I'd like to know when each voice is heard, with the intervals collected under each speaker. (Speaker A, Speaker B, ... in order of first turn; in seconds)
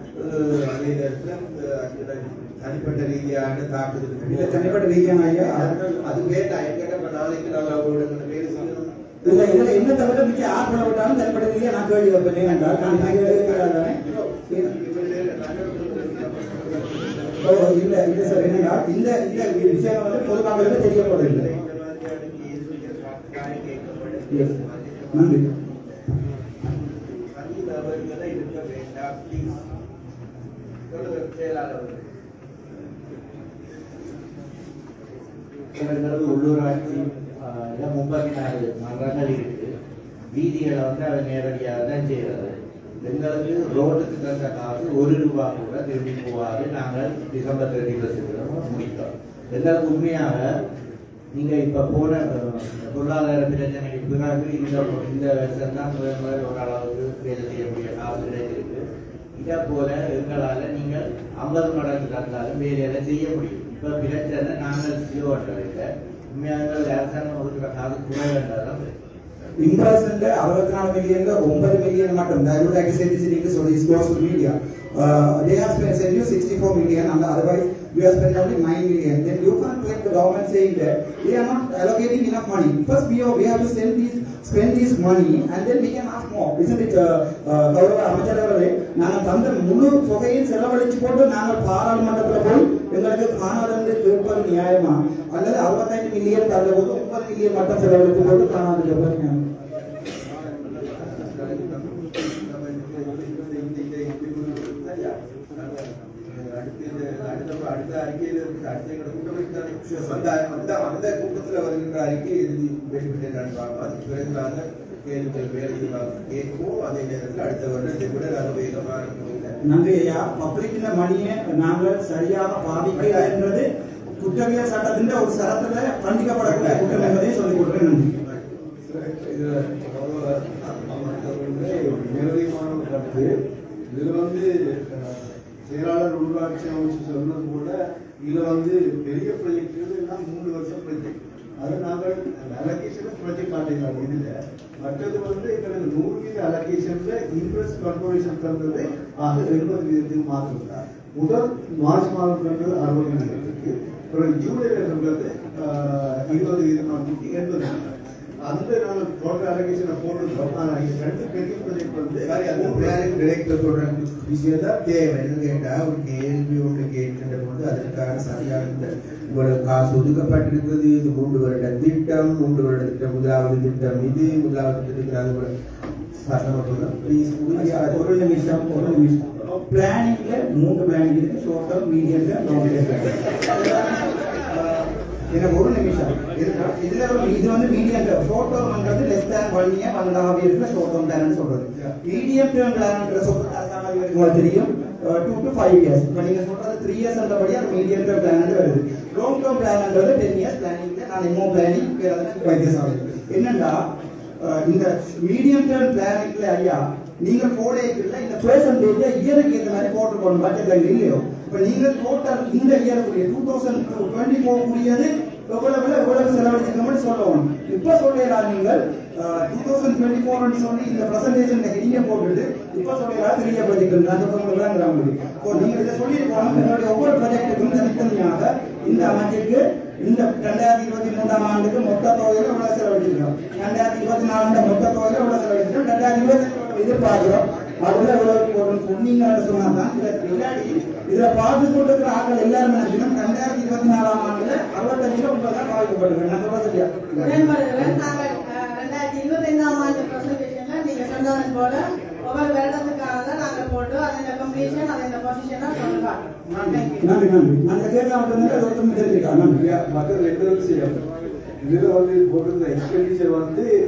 Speaker A: 0.1-9.7, 12.4-25.6, 27.3-29.6, 30.9-32.1, 100.3-119.5, 122.8-123.3, 126.4-127.2, 128.2-133.3, 133.9-137.7, 138.2-144.3, 144.8-145.7, 146.4-146.8, 147.8-148.3, 153.1-153.5, 161.9-175.5, 176.2-178.1, 259.6-260.9, 261.6-262.4
Speaker B: 4.2-5.8, 9.2-14.0, 17.4-21.5, 25.1-25.4, 69.6-99.4, 119.7-128.1, 177.5-203.8, 204.4-248.0, 256.5-259.6
Speaker C: 35.8-39.7, 40.3-50.5, 51.3-58.8, 59.4-68.9
Speaker D: 136.1-137.7, 138.3-141.0, 141.7-144.2, 144.9-157.8, 158.5-163.2, 259.9-260.9, 261.7-263.7
Speaker E: 247.2-256.8